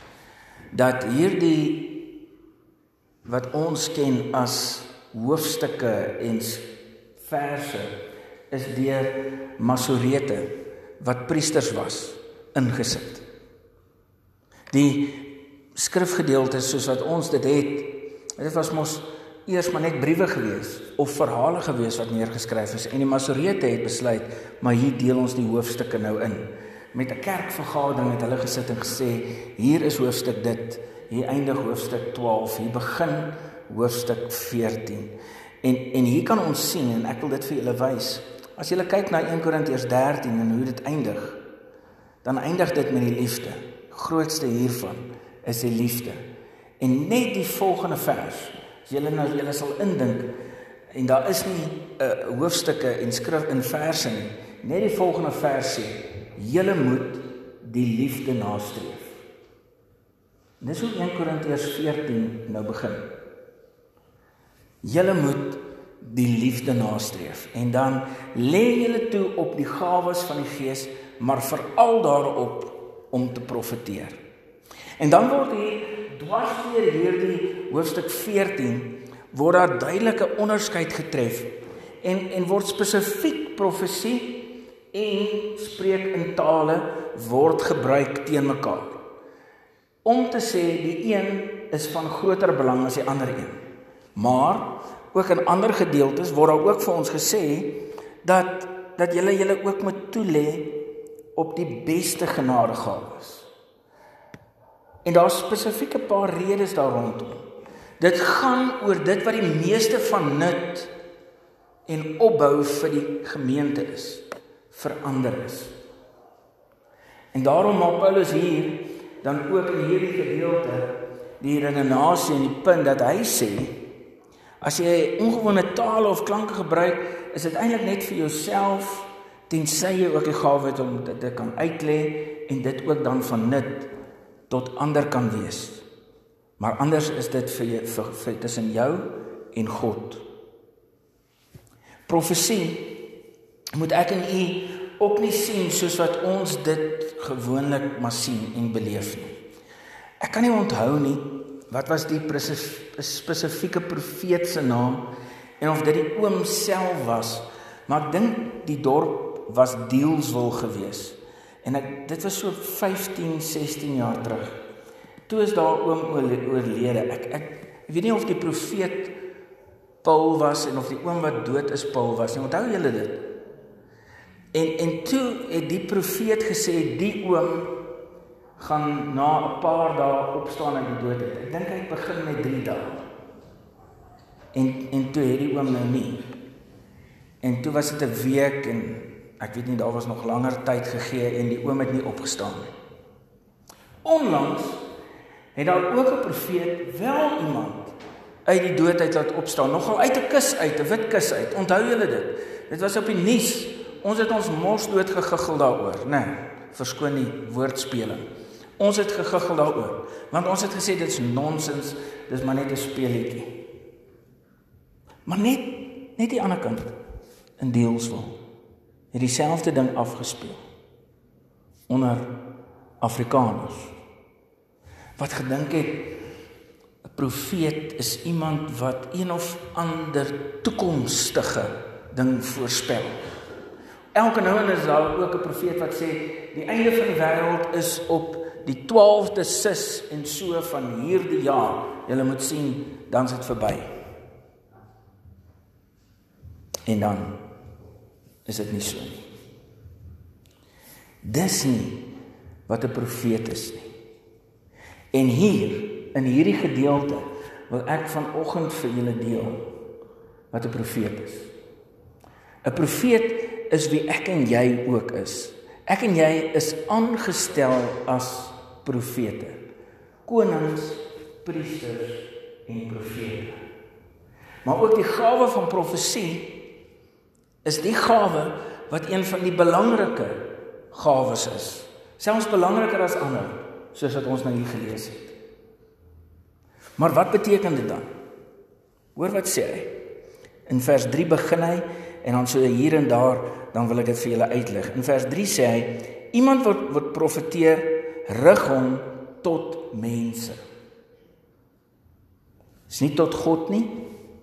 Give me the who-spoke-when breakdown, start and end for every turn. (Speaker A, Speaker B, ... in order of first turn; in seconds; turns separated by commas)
Speaker A: 0.7-2.2, Speaker A: 3.2-7.9, Speaker A: 8.5-13.2, Speaker A: 14.7-41.4, Speaker A: 42.2-46.2, Speaker A: 46.8-50.3, Speaker A: 50.9-59.2, Speaker A: 60.6-63.1, Speaker A: 64.8-74.2, Speaker A: 75.0-89.0, Speaker A: 90.0-93.6, Speaker A: 94.2-100.8, Speaker A: 101.3-103.5, Speaker A: 105.0-107.4, Speaker A: 108.0-110.9, Speaker A: 111.9-115.7, Speaker A: 117.3-123.8, Speaker A: 124.6-133.9, Speaker A: 134.5-135.8, Speaker A: 136.6-140.2, Speaker A: 142.1-143.0, Speaker A: 143.7-149.3, Speaker A: 150.2-164.6, Speaker A: 165.3-169.2, Speaker A: 170.0-173.3, Speaker A: 174.5-177.8, Speaker A: 178.6-183.0, Speaker A: 184.5-186.2, Speaker A: 187.4-192.7, Speaker A: 194.0-194.8, Speaker A: 195.6-197.9, Speaker A: 198.5-208.3, Speaker A: 208.8-213.6, Speaker A: 215.3-216.9, Speaker A: 217.6-218.4, Speaker A: 219.1-220.6, Speaker A: 221.9-222.4, Speaker A: 223.0-223.9, Speaker A: 225.2-226.2, Speaker A: 227.1-233.2, Speaker A: 234.1-243.9, Speaker A: 246.9-247.4, Speaker A: 248.5-249.2, Speaker A: 251.2-252.1, Speaker A: 252.7-253.9, Speaker A: 255.1-259.7, Speaker A: 260.5-261.5, Speaker A: 262.6-269.6, Speaker A: 270.2-273.6, Speaker A: 274.6-276.7, Speaker A: 277.6-285.3, Speaker A: 287.0-288.1, Speaker A: 289.1-289.9, Speaker A: 290.7-300.6, Speaker A: 302.9-304.1